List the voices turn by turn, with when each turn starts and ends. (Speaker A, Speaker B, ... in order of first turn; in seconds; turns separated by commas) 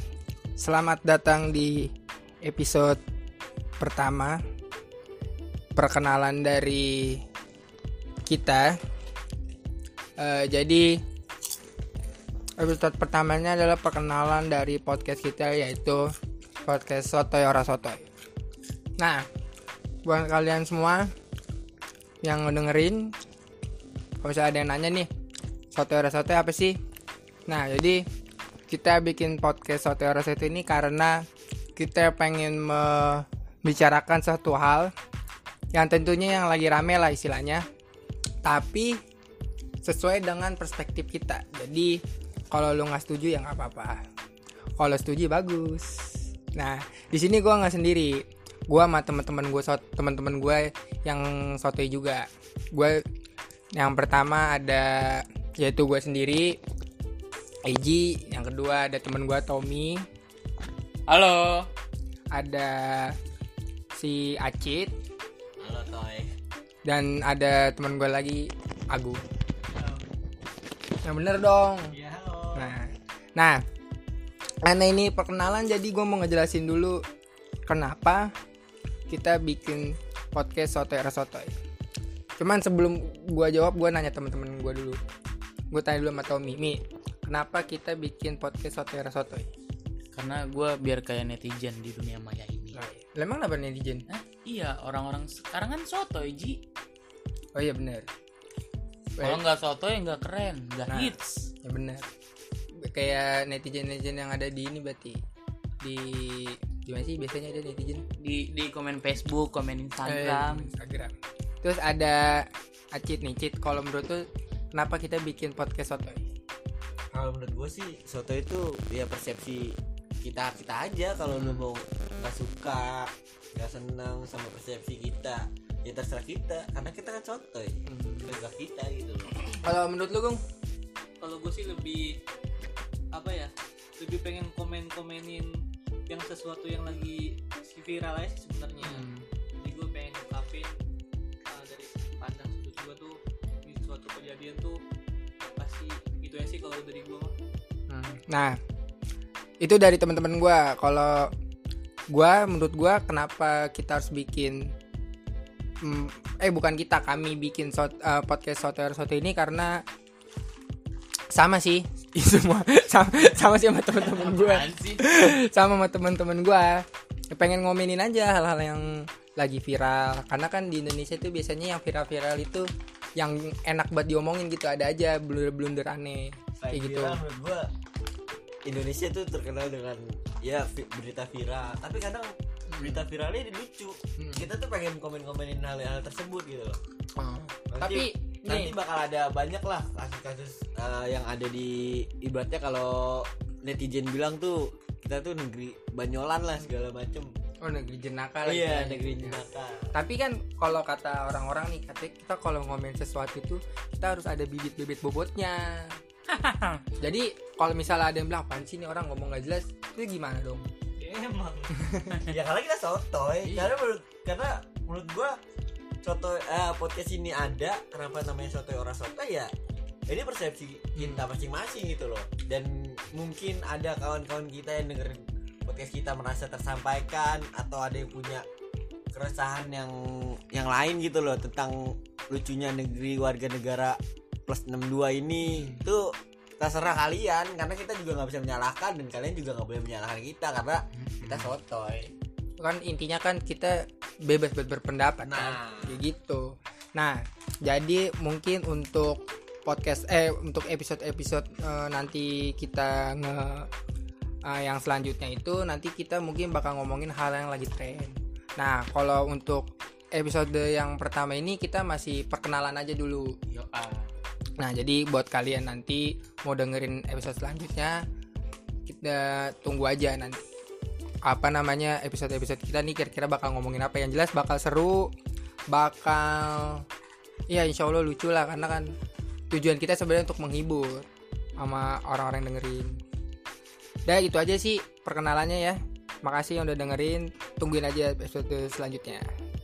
Speaker A: 0.6-1.9, Speaker A: 2.4-3.0, Speaker A: 3.8-4.4, Speaker A: 5.8-7.2, Speaker A: 8.2-8.8, Speaker A: 10.2-11.0, Speaker A: 12.6-16.1, Speaker A: 16.6-18.1, Speaker A: 19.0-19.2, Speaker A: 20.0-21.1, Speaker A: 22.2-23.1, Speaker A: 24.2-25.1, Speaker A: 25.7-26.7, Speaker A: 27.5-28.0, Speaker A: 28.7-31.2, Speaker A: 31.8-34.9, Speaker A: 35.7-37.6, Speaker A: 38.4-39.0, Speaker A: 39.8-42.0, Speaker A: 42.5-44.0, Speaker A: 44.8-53.0, Speaker A: 53.8-56.6, Speaker A: 57.6-60.0, Speaker B: 61.1-61.7, Speaker A: 62.3-63.1, Speaker A: 63.9-64.9, Speaker C: 65.6-66.3, Speaker A: 66.8-69.2, Speaker C: 69.8-70.1, Speaker A: 71.0-71.9, Speaker C: 71.9-72.7, Speaker A: 72.5-73.6, Speaker A: 74.6-77.0, Speaker A: 77.7-78.3, Speaker A: 79.1-81.5, Speaker A: 82.4-85.0, Speaker A: 85.7-89.5, Speaker B: 90.1-92.8, Speaker A: 92.7-94.0, Speaker B: 94.1-96.6, Speaker A: 97.5-98.0, Speaker A: 99.2-99.4, Speaker B: 99.2-101.5, Speaker A: 100.9-102.0, Speaker A: 102.9-105.2, Speaker A: 105.8-108.0, Speaker B: 108.2-110.7, Speaker A: 110.0-116.2, Speaker C: 117.1-129.5, Speaker A: 121.4-121.7, Speaker A: 127.9-128.3, Speaker A: 129.6-130.4, Speaker D: 131.2-132.2, Speaker D: 133.1-139.1, Speaker A: 138.8-139.2, Speaker D: 139.6-140.7, Speaker D: 141.5-144.8, Speaker D: 145.5-147.3, Speaker A: 147.9-148.6, Speaker A: 149.6-151.3, Speaker A: 152.1-154.6, Speaker A: 155.8-159.8, Speaker A: 161.3-177.2, Speaker B: 164.1-165.0, Speaker C: 176.6-177.7, Speaker C: 178.7-186.8, Speaker A: 182.7-183.0, Speaker A: 184.2-184.5, Speaker A: 187.2-188.7, Speaker C: 187.7-197.3, Speaker A: 197.6-205.9, Speaker C: 198.4-199.9, Speaker B: 206.3-206.8, Speaker A: 207.0-210.7, Speaker D: 211.0-212.1, Speaker A: 211.8-212.2, Speaker C: 212.2-215.3, Speaker C: 216.0-219.5, Speaker C: 220.1-228.4, Speaker A: 220.9-221.3, Speaker C: 229.1-242.1, Speaker A: 235.5-235.8, Speaker A: 242.6-253.7, Speaker C: 245.2-246.0, Speaker A: 254.5-263.3, Speaker B: 263.5-264.1, Speaker A: 264.6-268.0, Speaker A: 268.9-270.4, Speaker A: 271.2-275.1, Speaker A: 275.7-276.8, Speaker A: 277.5-278.9, Speaker A: 279.5-281.1, Speaker A: 281.6-283.0, Speaker A: 284.1-289.2